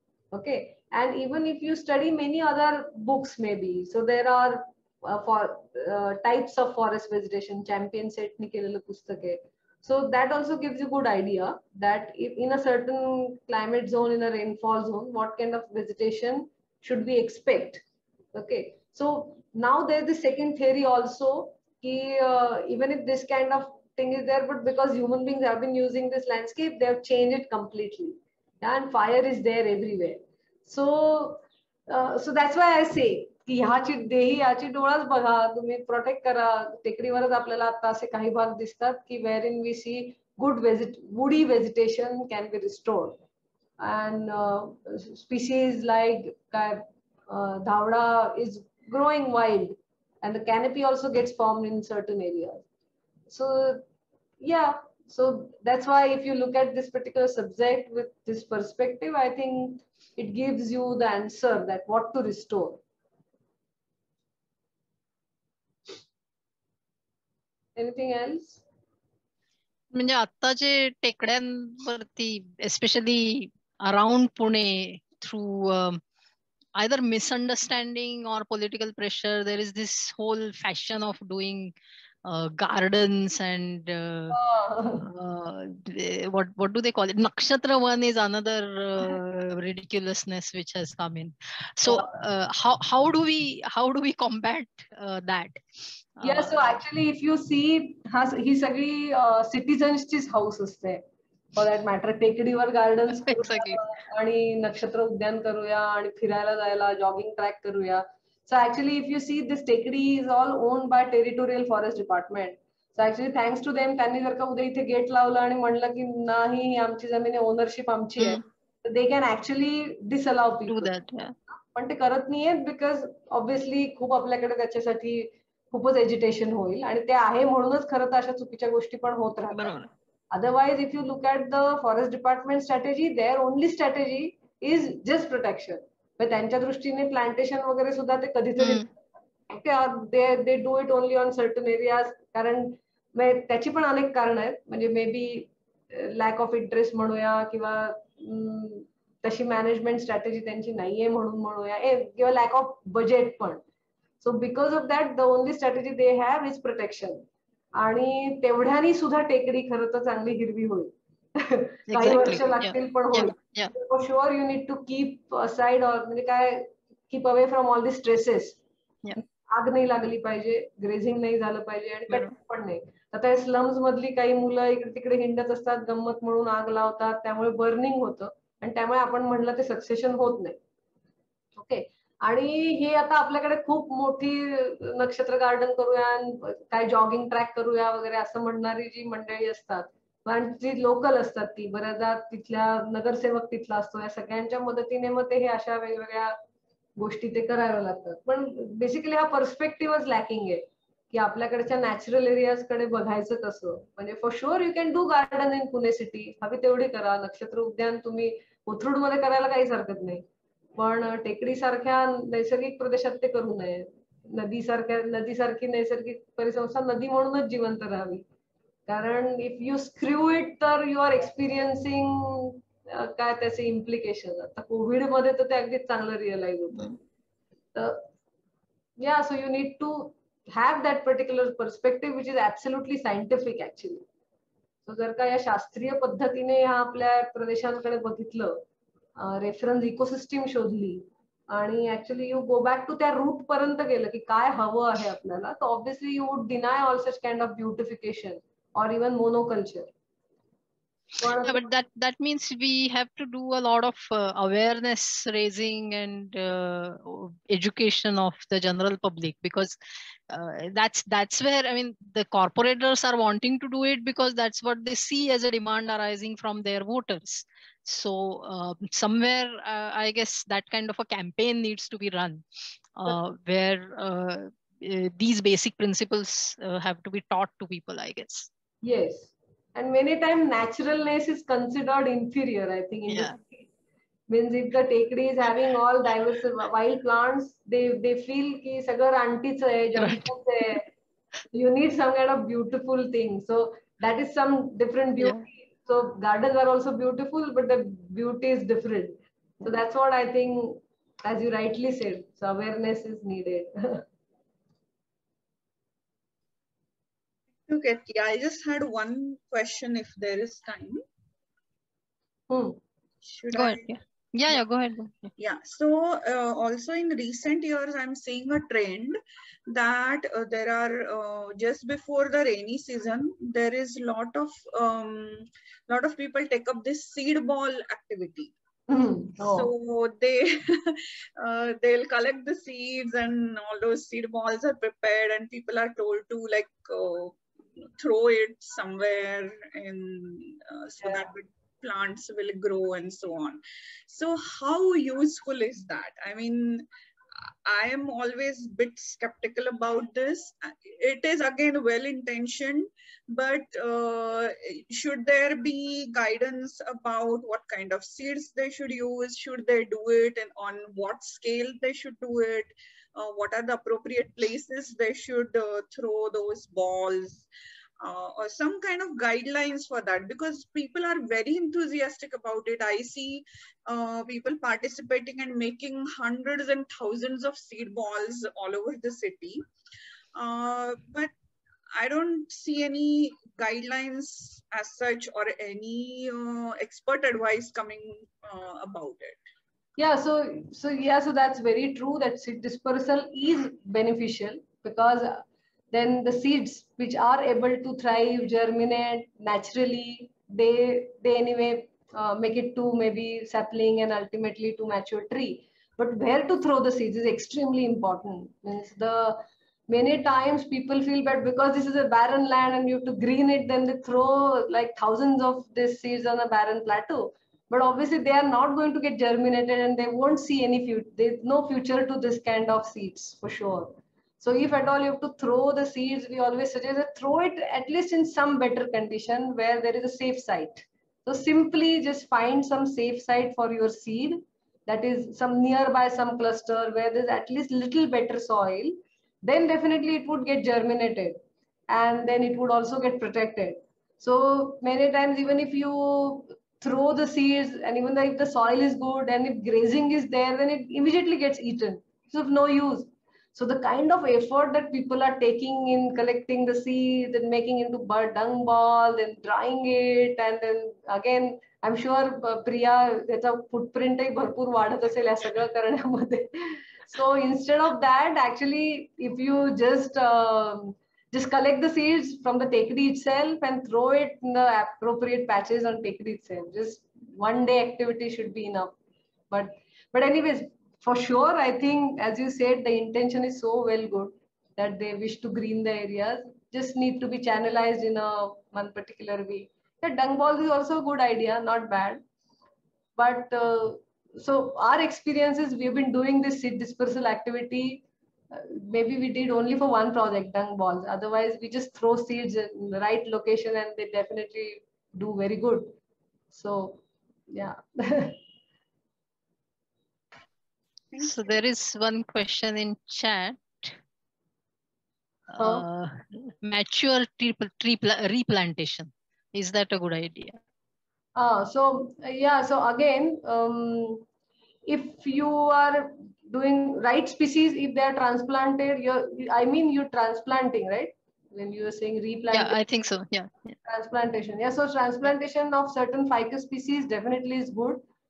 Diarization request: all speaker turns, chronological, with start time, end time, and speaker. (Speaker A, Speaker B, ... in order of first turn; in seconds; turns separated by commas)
Speaker A: 0.3-17.8, Speaker A: 18.3-43.2, Speaker A: 43.8-52.6, Speaker A: 53.3-53.8, Speaker A: 54.4-62.8, Speaker A: 67.8-68.6, Speaker B: 69.9-76.0, Speaker B: 76.8-81.7, Speaker B: 82.2-84.4, Speaker A: 84.3-85.0, Speaker B: 85.0-95.6, Speaker A: 91.8-92.1, Speaker B: 96.2-96.8, Speaker A: 96.2-101.0, Speaker A: 101.5-120.9, Speaker B: 103.2-103.8, Speaker B: 118.2-118.4, Speaker B: 120.7-121.3, Speaker A: 121.7-129.7, Speaker B: 129.5-129.9, Speaker A: 130.3-138.9, Speaker B: 138.6-138.9, Speaker A: 139.5-153.6, Speaker A: 154.2-168.6, Speaker B: 161.9-163.7, Speaker A: 169.5-180.6, Speaker B: 172.1-172.3, Speaker A: 181.5-196.3, Speaker A: 197.0-210.2, Speaker A: 210.8-218.2, Speaker A: 218.9-226.9, Speaker A: 227.7-228.0, Speaker A: 229.0-234.0, Speaker A: 234.8-238.6, Speaker A: 239.2-249.9, Speaker A: 251.2-251.7, Speaker B: 251.4-259.8, Speaker B: 260.3-272.4, Speaker B: 272.9-278.5, Speaker A: 278.8-283.7, Speaker B: 283.1-283.4, Speaker A: 284.3-290.9, Speaker B: 290.0-290.8, Speaker A: 291.5-304.0, Speaker B: 295.2-295.4, Speaker C: 307.7-311.0, Speaker A: 312.5-312.8, Speaker C: 313.2-313.9, Speaker B: 313.5-315.3, Speaker C: 315.4-328.5, Speaker A: 328.9-329.7, Speaker C: 329.4-346.9, Speaker A: 341.0-341.3, Speaker C: 347.6-367.4, Speaker C: 368.0-379.6, Speaker C: 380.3-381.3, Speaker C: 381.9-389.4, Speaker A: 390.0-478.9, Speaker A: 479.5-492.2, Speaker A: 493.1-505.9, Speaker A: 506.5-508.4, Speaker C: 511.1-511.6, Speaker B: 511.2-514.0, Speaker B: 515.5-520.6, Speaker A: 515.6-515.8, Speaker A: 521.4-524.2, Speaker A: 524.8-532.8, Speaker B: 532.5-533.8, Speaker A: 533.8-538.0